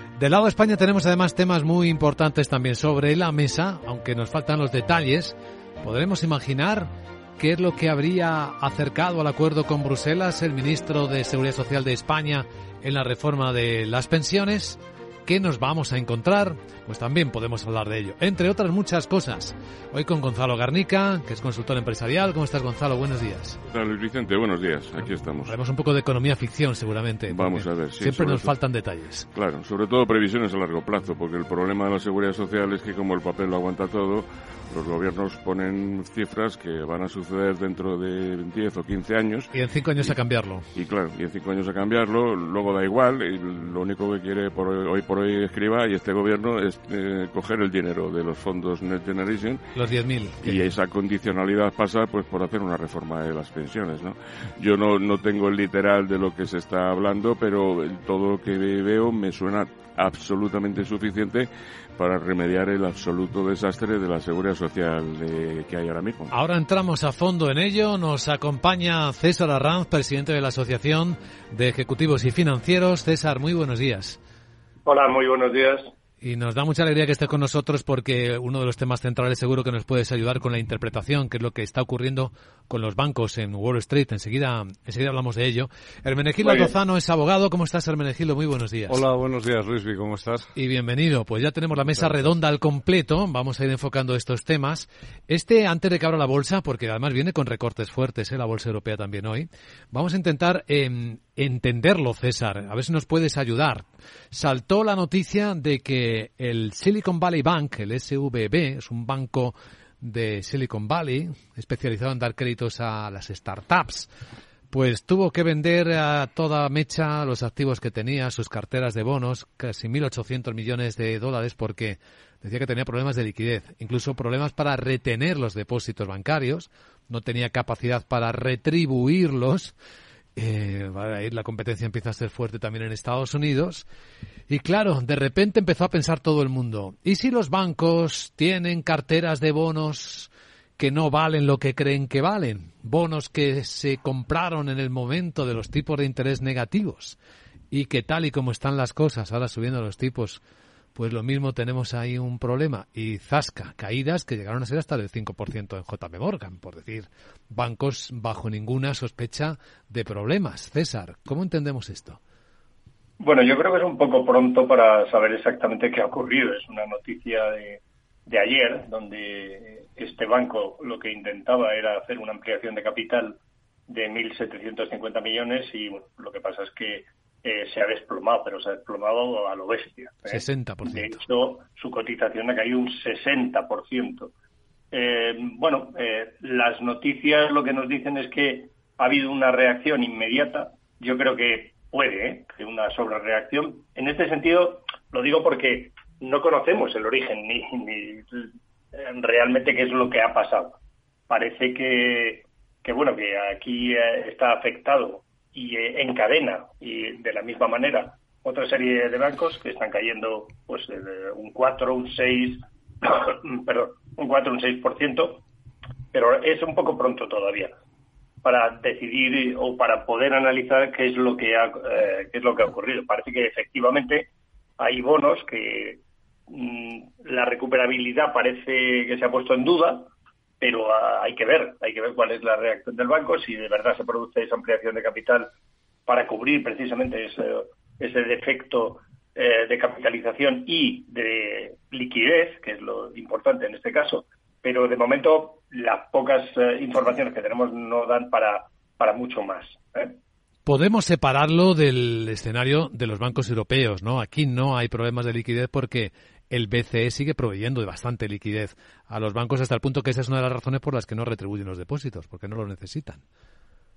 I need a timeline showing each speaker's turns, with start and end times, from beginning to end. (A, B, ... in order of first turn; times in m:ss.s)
0:00.2-0:23.6 A
0:23.6-0:25.5 B
0:25.4-0:29.3 A
0:27.3-0:28.5 B
0:29.3-0:40.1 B
0:39.5-0:40.6 A
0:40.7-0:49.6 B
0:49.8-0:50.6 A
0:50.4-1:06.3 B
1:06.3-1:14.2 A
1:14.8-1:15.9 C
1:16.2-1:29.0 A
1:26.4-1:26.7 D
1:28.9-1:30.5 D
1:30.6-1:54.1 A
1:31.9-1:32.3 D
1:54.7-2:09.7 A
2:10.4-2:13.8 A
2:14.5-2:27.2 A
2:27.7-2:30.4 A
2:31.0-2:42.2 A
2:43.2-3:04.3 C
3:00.3-3:01.2 A
3:04.9-3:20.8 C
3:21.3-3:35.4 C
3:36.1-3:37.7 C
3:38.4-3:55.5 C
3:56.1-4:10.1 C
4:10.6-4:23.2 A